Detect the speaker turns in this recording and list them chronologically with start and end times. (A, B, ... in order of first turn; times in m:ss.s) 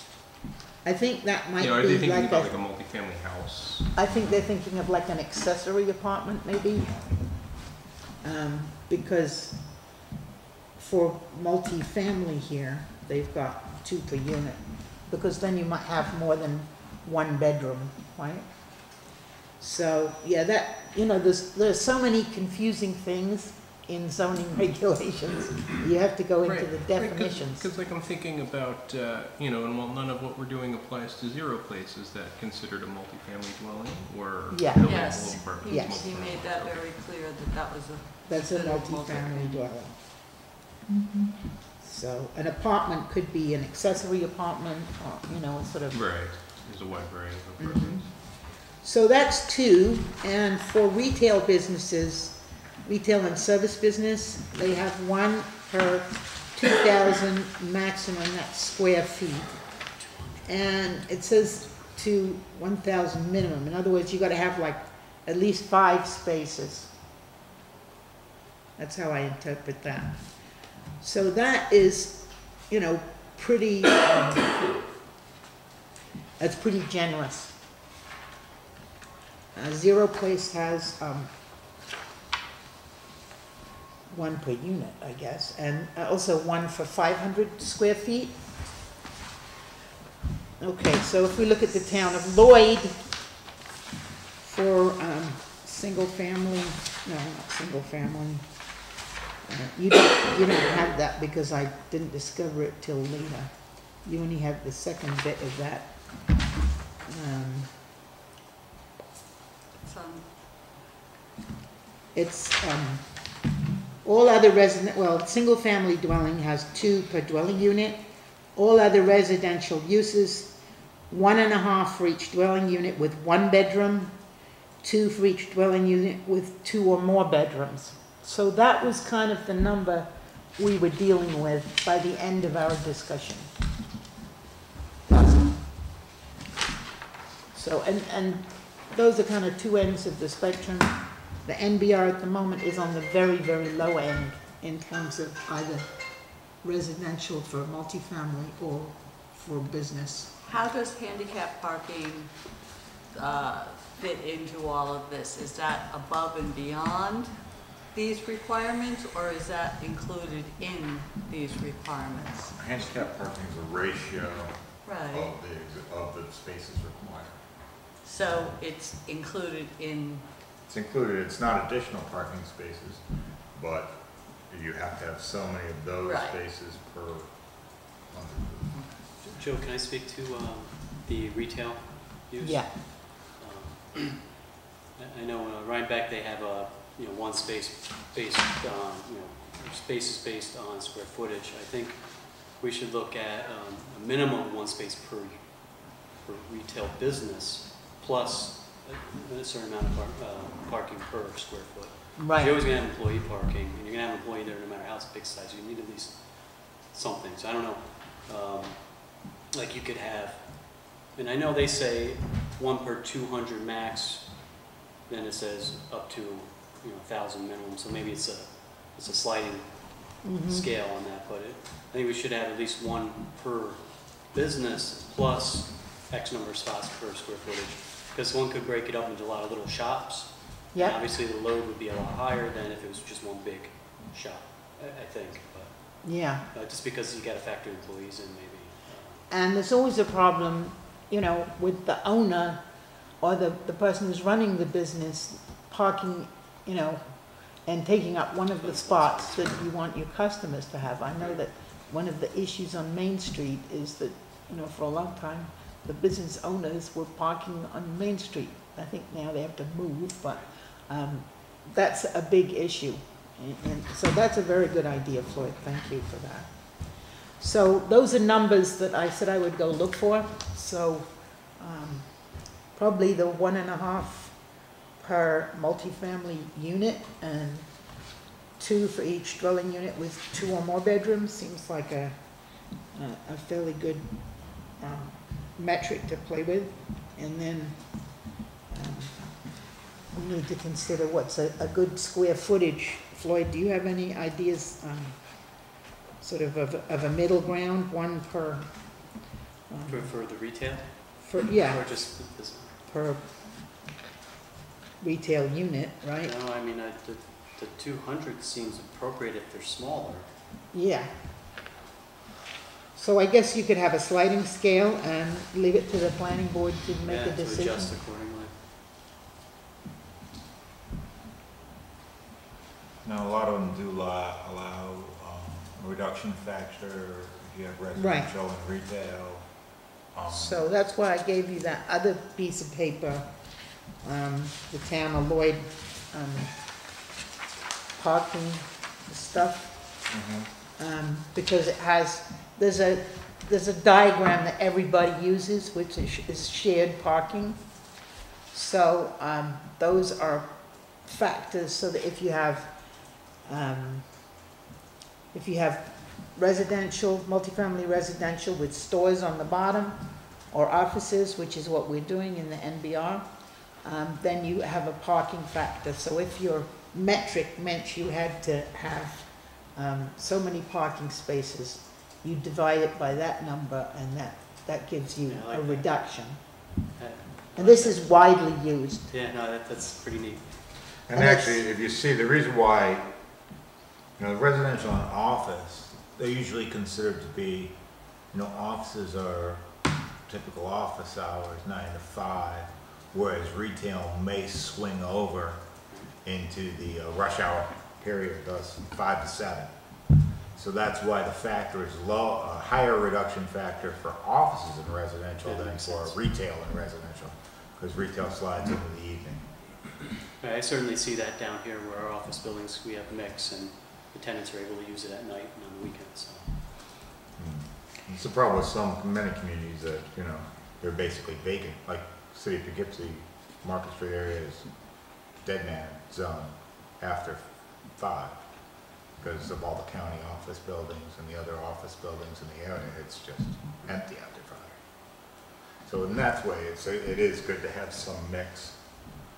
0:00.8-0:02.6 A
0:01.6-0:04.0 B
0:03.9-0:07.6 A
0:08.2-0:09.8 A
0:10.8-0:27.7 A
0:26.4-0:36.9 B
0:34.5-0:36.2 A
0:34.8-0:39.6 C
0:38.2-0:40.0 A
0:41.8-0:46.3 A
0:45.9-0:48.1 B
0:47.6-0:59.6 A
1:00.0-1:00.6 D
1:00.4-1:06.9 A
1:08.8-1:10.4 A
1:11.0-1:14.7 A
1:16.4-1:17.6 A
1:19.5-1:21.3 A
1:24.1-1:28.4 A
1:30.6-1:33.1 A
1:34.4-1:38.5 A
1:39.4-1:46.4 A
1:47.0-1:47.9 A
1:49.8-1:50.3 C
1:52.1-1:53.1 A
1:54.0-2:04.2 A
2:04.8-2:13.5 A
2:15.1-2:15.6 A
2:17.5-2:30.3 A
2:30.4-2:32.3 C
2:33.1-2:37.3 C
2:37.9-2:42.5 C
2:42.6-2:47.4 E
2:44.8-2:45.3 C
2:48.0-2:50.2 C
2:50.7-2:57.3 E
2:56.0-2:56.4 C
2:57.8-2:58.8 E
2:59.2-3:04.4 D
3:02.4-3:02.7 A
3:05.0-3:59.2 D
3:22.2-3:22.6 A
3:40.2-3:40.6 A
3:50.7-3:51.0 A
3:56.0-3:56.4 A
3:59.3-4:02.6 A
4:03.2-4:34.4 A
4:08.6-4:09.6 D
4:35.0-4:38.0 A
4:38.6-4:42.2 A
4:42.9-4:49.5 A
4:50.1-4:58.7 A
4:59.7-5:00.1 A
4:59.9-5:02.7 D
5:01.2-5:01.8 A
5:02.9-5:03.3 A
5:05.0-5:06.3 A
5:06.2-5:10.3 D
5:10.7-5:11.1 A
5:12.9-5:17.9 A
5:17.0-5:18.5 D
5:23.0-5:29.5 E
5:27.9-5:28.3 A
5:30.1-5:30.6 E
5:30.3-5:33.3 A
5:33.9-5:36.6 A
5:38.0-5:39.8 A
5:40.1-5:40.5 E
5:40.8-5:47.6 A
5:48.5-5:54.4 A
5:55.3-6:03.3 A
6:03.8-6:16.4 A
6:15.3-6:15.9 D
6:17.0-6:18.0 D
6:17.6-6:19.1 A
6:19.1-6:20.6 D
6:21.1-6:23.2 E
6:21.1-6:21.6 A
6:24.2-6:27.8 E
6:28.3-6:29.6 E
6:30.3-6:35.6 E
6:36.2-6:39.7 E
6:40.5-6:49.5 E
6:45.4-6:46.1 D
6:50.4-6:56.4 D
6:57.4-7:08.4 E
7:09.1-7:14.8 E
7:15.8-7:18.8 E